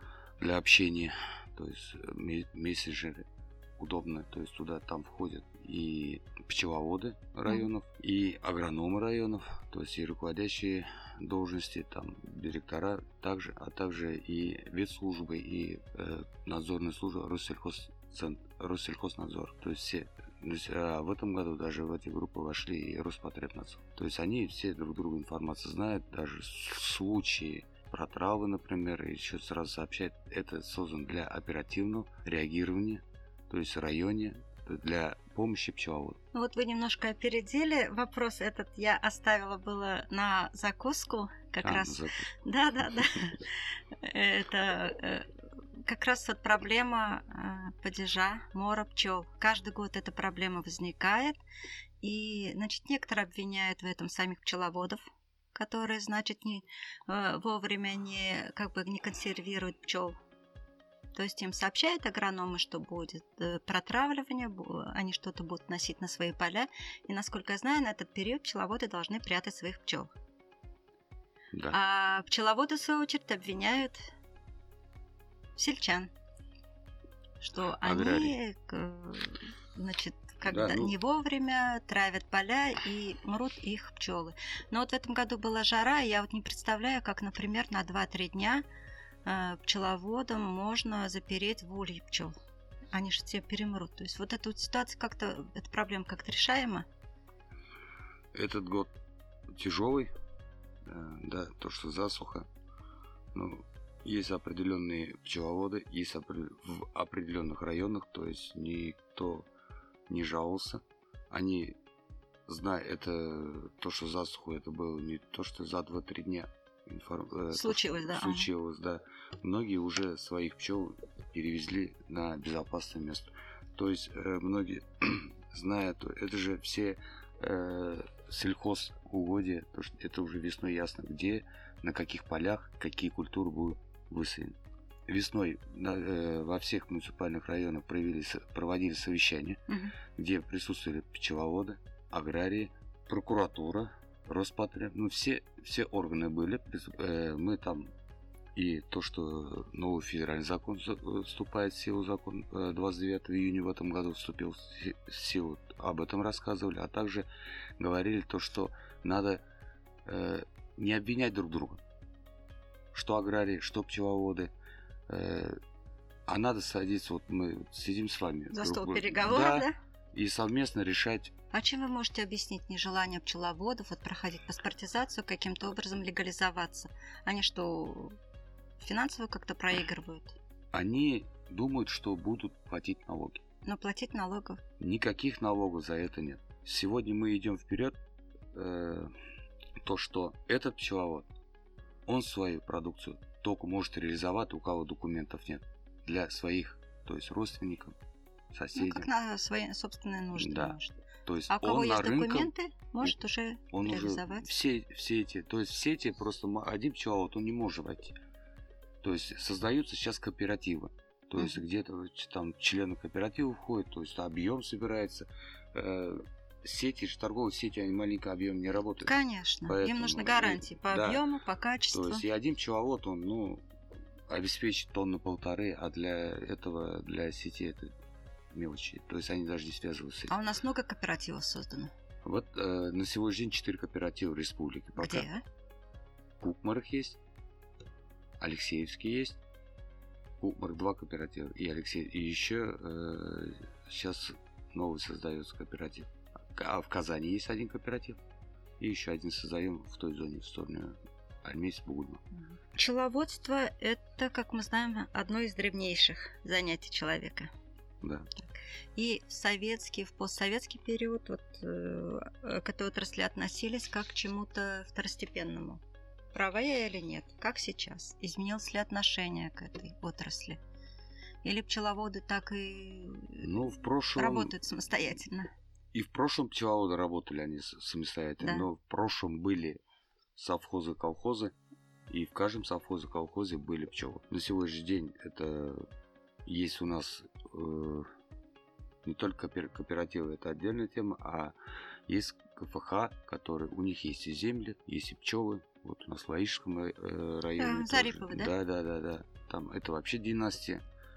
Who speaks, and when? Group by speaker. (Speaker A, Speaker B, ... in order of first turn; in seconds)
Speaker A: 0.4-36.2, 41.6-42.3, 77.8-78.4, 80.4-80.9, 98.3-98.9, 99.5-100.1, 100.8-102.5, 103.3-109.5, 110.1-111.8, 112.5-134.6, 135.1-147.9, 148.5-159.4, 160.0-161.8, 162.9-164.5, 165.1-165.6, 166.3-171.3, 180.7-183.4, 184.8-188.0, 188.5-189.1, 189.8-191.3, 192.1-198.0, 198.5-199.1, 200.3-202.5, 203.7-208.2, 209.0-219.1, 219.7-221.2, 221.9-223.7, 224.3-227.9, 228.5-230.4, 232.2-235.3, 236.4-237.2, 238.4-239.4, 240.4-248.2, 248.8-252.2, 258.0-258.3, 273.4-274.6, 275.9-279.8, 280.4-281.5, 282.1-285.9, 286.4-288.1, 289.0-291.5, 292.1-300.8
Speaker B: 36.3-51.4, 52.0-60.1, 61.1-70.1, 71.7-74.0, 75.5-76.1, 77.4-88.6, 89.2-92.3, 92.9-96.8, 117.5-118.5, 139.7-139.9, 168.5-169.7, 171.5-178.2, 178.8-180.3, 183.6-184.6, 198.7-200.9, 201.5-204.5, 219.0-222.2, 230.3-231.9, 235.0-235.4, 252.5-257.5, 258.9-265.8, 266.3-270.6, 271.4-273.5, 274.1-275.5, 278.4-278.7, 297.6-298.5